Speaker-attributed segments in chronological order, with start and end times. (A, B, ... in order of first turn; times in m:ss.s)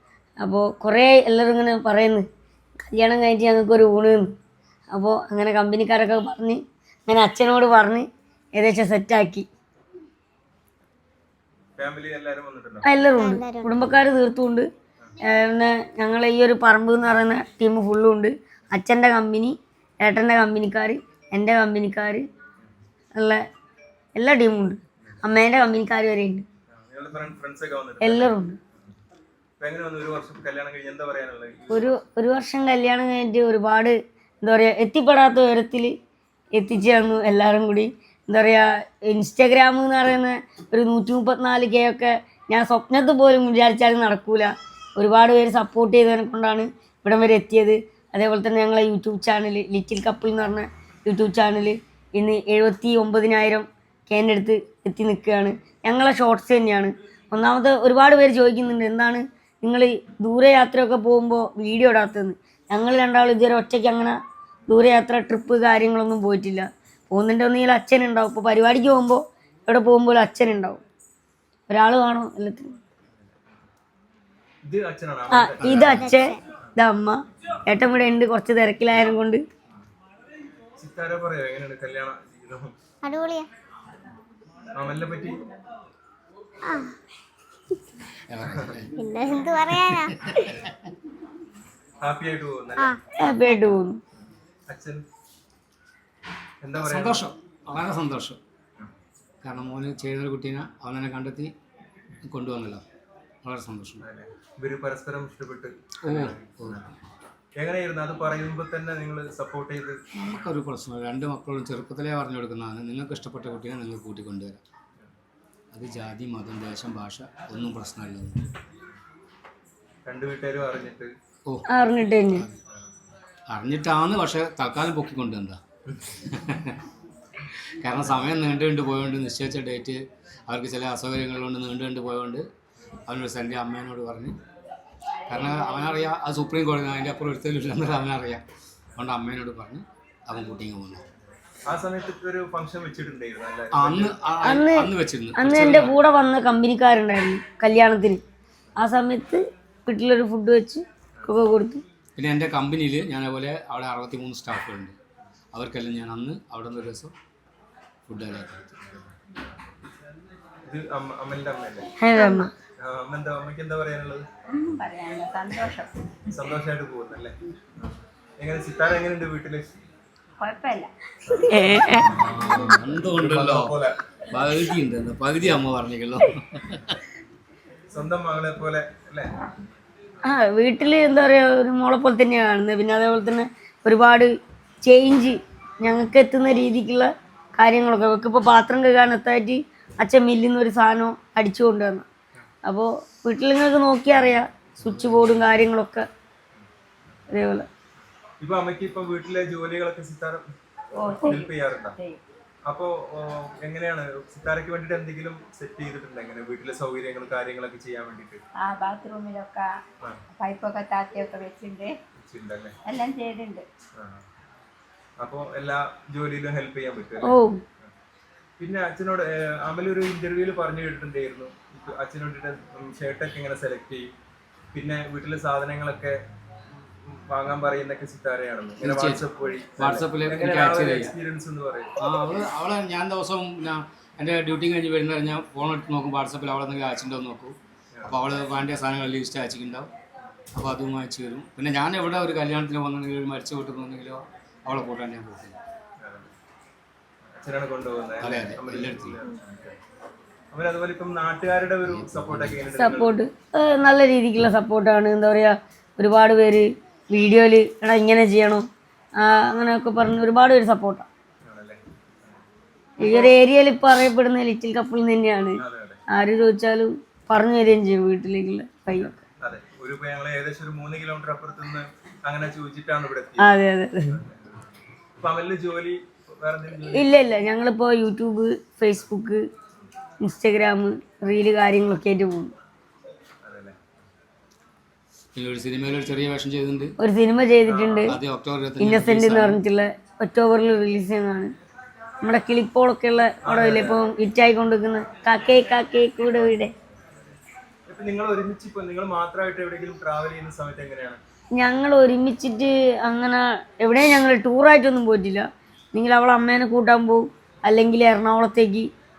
0:00.4-0:02.2 A
0:02.8-0:04.3 A
0:04.9-0:09.4 A
0:11.8-0:12.8 B
0:12.8-0:14.7 A
0:13.2-0:13.7 C
0:15.2-0:22.2 A
0:23.1-0:23.4 A
0:24.2-0:26.4 A
0:26.7-0:28.4 B
0:28.0-0:28.6 A
0:29.6-0:32.0 B
0:31.7-0:35.9 A
0:36.5-1:04.2 A
1:04.7-1:10.8 A
1:11.7-1:12.8 A
1:14.7-1:15.9 B
1:15.3-1:19.4 A
1:15.6-1:16.1 D
1:15.9-1:16.3 C
1:20.8-1:22.7 B
1:23.0-1:23.5 C
1:24.7-1:25.4 B
1:26.7-1:26.9 C
1:28.3-1:28.9 D
1:29.0-1:30.5 C
1:29.7-1:30.9 D
1:32.0-1:32.9 B
1:32.8-1:33.6 C
1:33.2-1:34.0 A
1:34.7-1:35.0 B
1:36.6-1:37.2 B
1:36.8-1:38.4 D
1:39.4-1:41.5 D
1:42.3-1:42.8 D
1:43.4-1:44.0 D
1:44.0-1:46.8 B
1:46.0-1:46.8 D
1:47.6-1:50.0 B
1:50.2-1:54.6 D
1:55.7-1:58.4 D
2:00.0-2:01.1 B
2:01.7-2:02.5 A
2:03.5-2:05.6 D
2:06.2-2:06.8 D
2:07.5-2:12.5 D
2:13.1-2:14.4 D
2:15.3-2:18.4 D
2:19.0-2:21.0 D
2:21.7-2:24.2 B
2:23.7-2:26.0 D
2:24.4-2:28.2 A
2:28.8-2:31.8 A
2:32.2-2:35.0 D
2:35.5-2:37.1 D
2:38.1-2:38.7 D
2:40.7-2:41.9 B
2:42.0-2:42.5 A
2:42.8-2:44.3 B
2:44.5-2:45.9 E
2:46.3-2:47.3 B
2:48.4-2:49.7 B
2:50.4-2:50.9 E
2:51.4-2:52.1 A
2:52.0-2:57.0 D
2:53.1-2:54.0 B
2:57.9-2:59.3 B
3:00.2-3:04.3 A
3:04.8-3:12.1 A
3:12.7-3:16.1 A
3:14.8-3:15.4 D
3:17.3-3:17.7 A
3:18.4-3:20.4 B
3:21.0-3:22.2 E
3:21.2-3:22.0 B
3:22.7-3:28.4 B
3:28.6-3:29.7 E
3:30.4-3:31.9 E
3:32.2-3:32.8 B
3:32.8-3:33.7 E
3:34.0-3:34.2 B
3:35.2-3:37.3 B
3:37.2-3:37.6 A
3:38.6-3:44.1 B
3:44.7-3:46.2 B
3:47.0-3:51.9 B
3:48.8-3:49.2 D
3:49.8-3:51.1 D
3:52.0-3:59.9 D
4:00.6-4:05.6 D
4:06.0-4:06.3 B
4:07.4-4:09.8 B
4:08.2-4:09.2 D
4:10.5-4:13.2 B
4:11.8-4:12.6 D
4:12.8-4:18.7 A
4:19.2-4:21.1 A
4:21.4-4:21.8 B
4:23.0-4:25.6 A
4:23.1-4:23.3 B
4:25.6-4:26.0 B
4:26.1-4:29.2 A
4:29.4-4:33.6 B
4:33.4-4:34.2 A
4:34.1-4:34.5 B
4:35.2-4:37.1 B
4:36.9-4:39.4 A
4:40.2-4:42.5 A
4:43.4-4:43.8 B
4:45.4-4:46.9 D
4:47.0-4:48.2 A
4:47.7-4:48.2 B
4:48.1-4:49.6 D
4:48.8-4:51.5 A
4:52.2-4:56.7 A
4:53.4-4:54.0 B
4:57.9-5:01.2 B
5:01.6-5:08.9 A